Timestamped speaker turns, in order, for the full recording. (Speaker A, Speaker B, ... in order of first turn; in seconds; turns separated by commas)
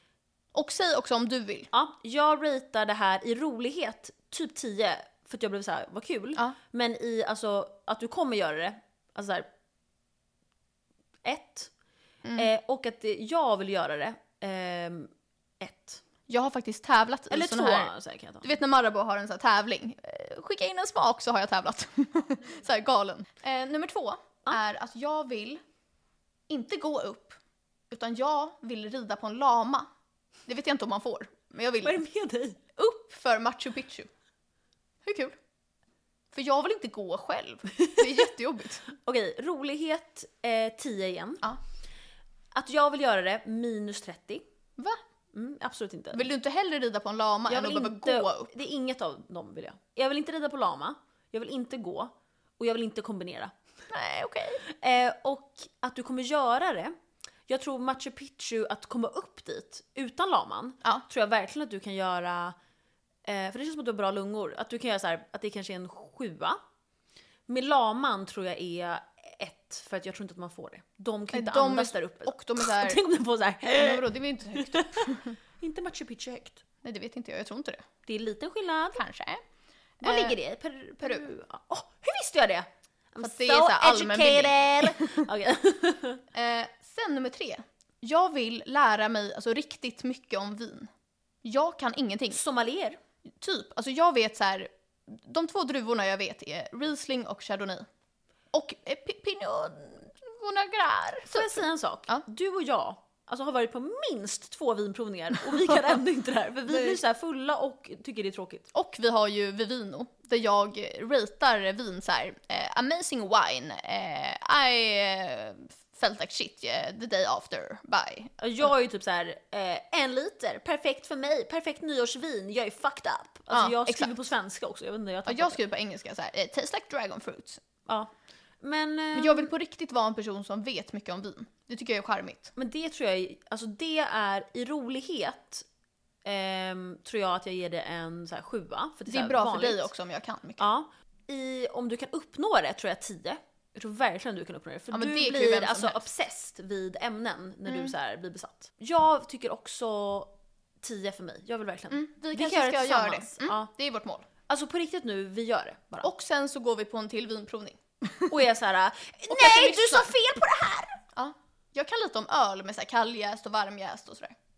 Speaker A: 0.5-1.7, Speaker B: 1.7-9.4, Speaker B: 11.2-11.7, Speaker B: 12.4-16.0, Speaker A: 16.3-25.6, Speaker B: 17.3-18.5, Speaker A: 26.5-27.4, Speaker A: 27.9-29.9, Speaker A: 30.4-32.0, Speaker B: 31.8-32.6, Speaker A: 32.8-34.1, Speaker A: 35.0-35.4, Speaker A: 36.3-38.9, Speaker B: 38.9-41.5, Speaker B: 42.5-44.4, Speaker B: 45.3-46.2, Speaker A: 46.1-48.5, Speaker B: 47.5-53.5, Speaker A: 53.9-54.6, Speaker B: 54.6-56.9, Speaker B: 57.5-62.5, Speaker B: 63.2-66.6, Speaker B: 67.5-76.6, Speaker A: 71.3-73.0, Speaker A: 73.8-75.4, Speaker A: 76.8-77.8, Speaker B: 78.1-79.0, Speaker A: 79.0-79.4, Speaker A: 80.0-80.4, Speaker B: 80.0-86.2, Speaker A: 83.2-85.3, Speaker A: 86.3-90.9, Speaker A: 91.4-92.4, Speaker B: 92.3-93.0, Speaker A: 93.4-97.9, Speaker A: 98.5-102.2, Speaker B: 101.3-108.7, Speaker A: 106.7-107.0, Speaker A: 108.7-118.3, Speaker B: 118.4-125.6, Speaker A: 123.5-124.1, Speaker A: 125.3-127.6, Speaker B: 128.6-129.5, Speaker A: 129.1-132.5, Speaker B: 132.6-135.7, Speaker B: 136.2-139.9, Speaker A: 139.1-140.6, Speaker B: 140.6-153.7, Speaker A: 144.9-146.0, Speaker A: 147.7-147.9, Speaker A: 151.9-154.3, Speaker B: 154.4-156.1, Speaker A: 156.0-158.3, Speaker B: 158.3-161.0, Speaker A: 159.3-160.1, Speaker A: 161.1-164.3